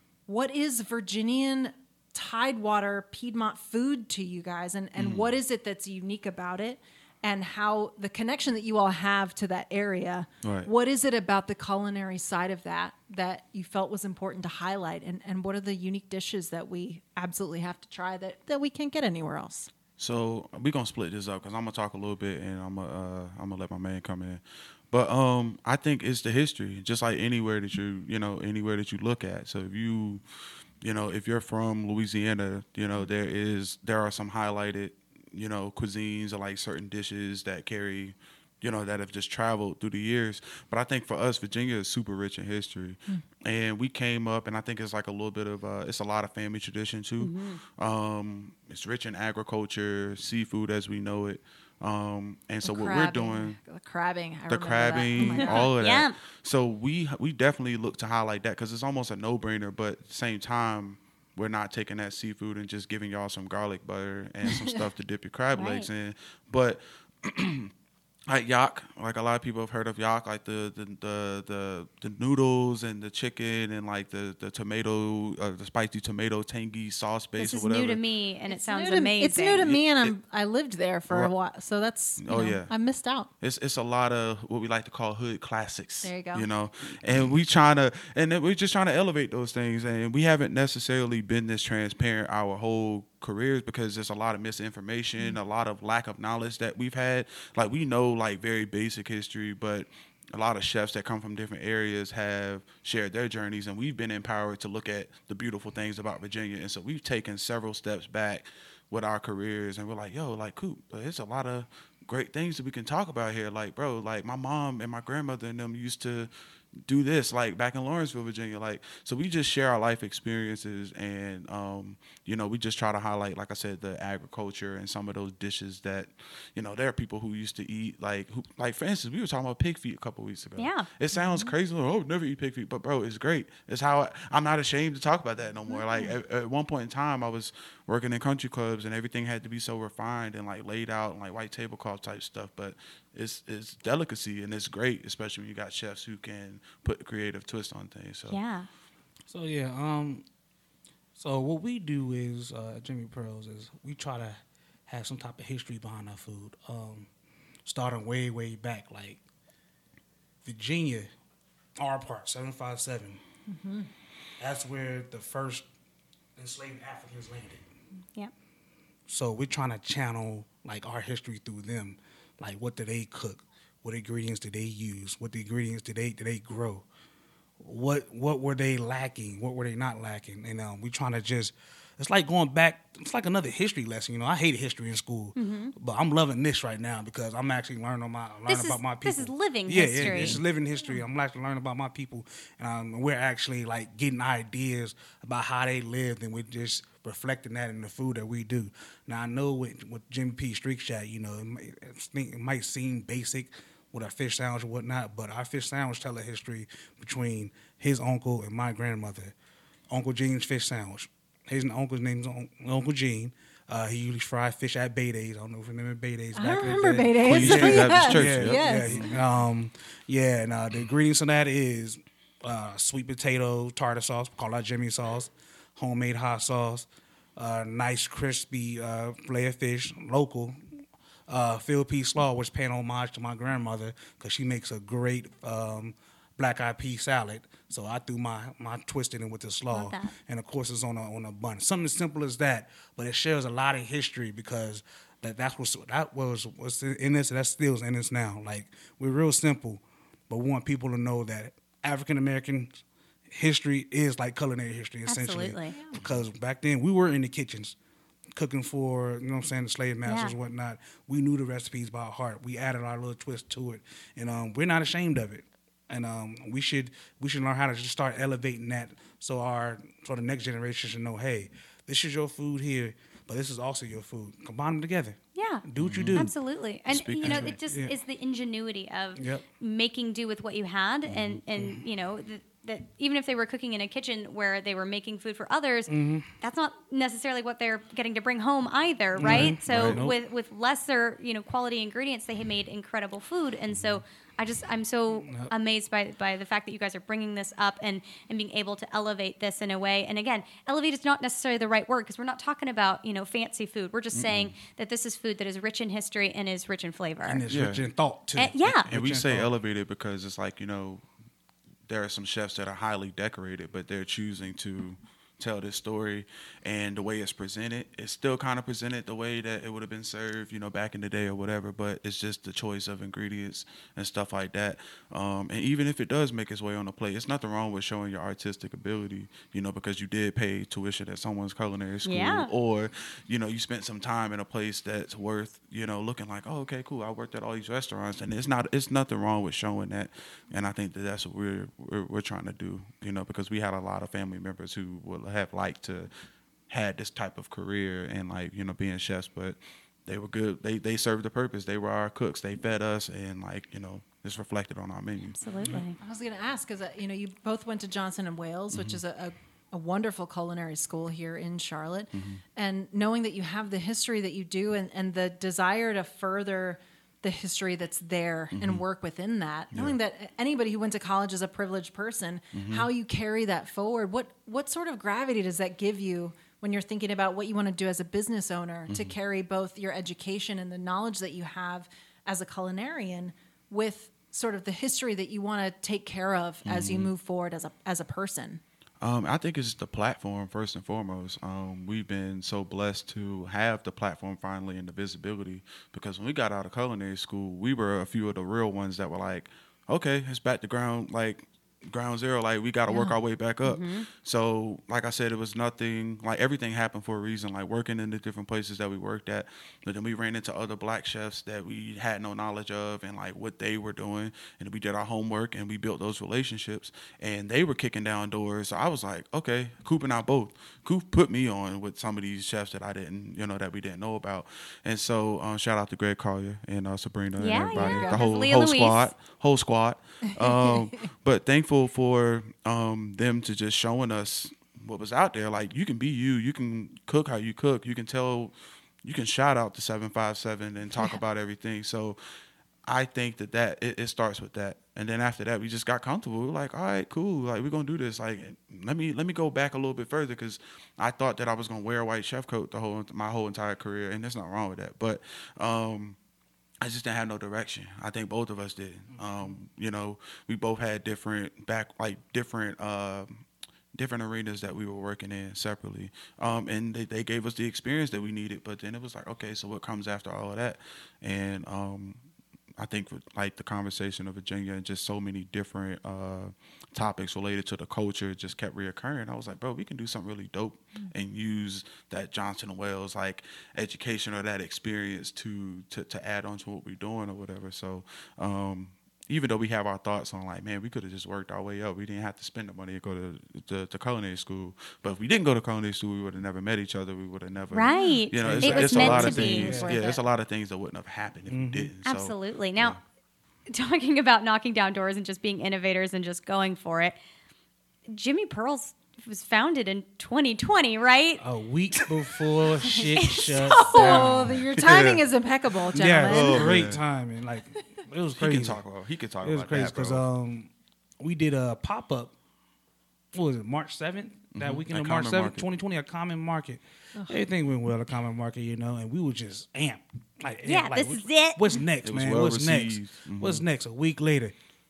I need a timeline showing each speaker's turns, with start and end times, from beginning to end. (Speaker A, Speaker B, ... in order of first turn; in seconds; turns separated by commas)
Speaker A: 0.3-19.7, Speaker B: 5.0-5.3, Speaker B: 10.4-10.7, Speaker B: 20.0-30.2, Speaker B: 30.8-53.6, Speaker C: 47.2-47.6, Speaker A: 52.6-55.7, Speaker B: 54.5-67.7, Speaker C: 55.2-56.2, Speaker C: 65.5-65.9, Speaker B: 68.3-78.0, Speaker C: 77.4-79.7, Speaker A: 78.5-83.3, Speaker B: 79.6-80.1, Speaker B: 82.2-82.7, Speaker B: 83.4-116.3, Speaker A: 86.0-86.5, Speaker B: 116.8-148.4, Speaker C: 130.6-130.9, Speaker A: 131.2-131.5, Speaker A: 135.7-136.1, Speaker C: 148.3-148.7, Speaker D: 149.3-150.2, Speaker D: 151.2-157.1, Speaker D: 157.7-159.2, Speaker D: 160.4-161.1, Speaker D: 161.8-163.2, Speaker A: 163.5-163.9, Speaker D: 164.4-165.7, Speaker D: 166.4-167.6, Speaker D: 169.1-176.8, Speaker D: 177.6-209.3, Speaker C: 185.4-185.7, Speaker C: 188.5-190.4, Speaker B: 190.0-190.4, Speaker D: 209.9-230.6, Speaker A: 216.3-219.1, Speaker B: 217.2-219.2, Speaker D: 231.3-257.8, Speaker C: 239.7-240.1, Speaker C: 255.1-255.8, Speaker D: 258.3-276.3, Speaker C: 260.1-260.3, Speaker C: 275.4-307.4, Speaker B: 275.8-276.3, Speaker B: 276.9-277.6, Speaker D: 277.2-278.0, Speaker D: 279.2-279.4, Speaker B: 281.1-281.4, Speaker D: 281.6-281.8, Speaker D: 285.9-286.3, Speaker D: 289.2-290.2, Speaker B: 289.2-290.0, Speaker B: 293.7-294.0, Speaker D: 295.1-295.5, Speaker B: 304.1-304.5, Speaker D: 307.2-309.5, Speaker B: 307.5-307.8, Speaker C: 308.4-308.9, Speaker B: 308.9-311.1, Speaker B: 311.9-346.1, Speaker C: 332.1-332.5, Speaker B: 346.7-355.8, Speaker C: 355.4-356.0, Speaker A: 356.0-388.6, Speaker B: 358.7-359.0, Speaker B: 362.1-362.4, Speaker B: 368.5-368.8, Speaker B: 372.5-372.9, Speaker B: 378.9-379.1, Speaker B: 386.6-387.1, Speaker B: 389.0-442.2, Speaker A: 402.9-403.2, Speaker C: 403.6-404.1, Speaker C: 427.4-429.1, Speaker A: 427.8-428.2, Speaker A: 430.4-430.7, Speaker B: 442.9-456.2, Speaker B: 456.8-472.2, Speaker D: 459.1-459.6, Speaker B: 472.8-503.0, Speaker C: 497.7-500.2, Speaker D: 498.4-499.9, Speaker A: 498.8-500.2, Speaker D: 501.5-501.9, Speaker C: 502.1-503.0, Speaker C: 503.7-507.2, Speaker C: 508.1-511.4, Speaker D: 511.4-514.6, Speaker A: 513.0-516.8, Speaker C: 513.2-514.2, Speaker B: 514.1-515.2, Speaker D: 515.9-518.8, Speaker B: 516.2-517.0, Speaker B: 518.4-520.3, Speaker D: 519.4-522.3, Speaker D: 523.3-534.5, Speaker B: 524.5-525.7, Speaker A: 527.1-527.4, Speaker C: 530.6-531.8, Speaker B: 532.0-533.6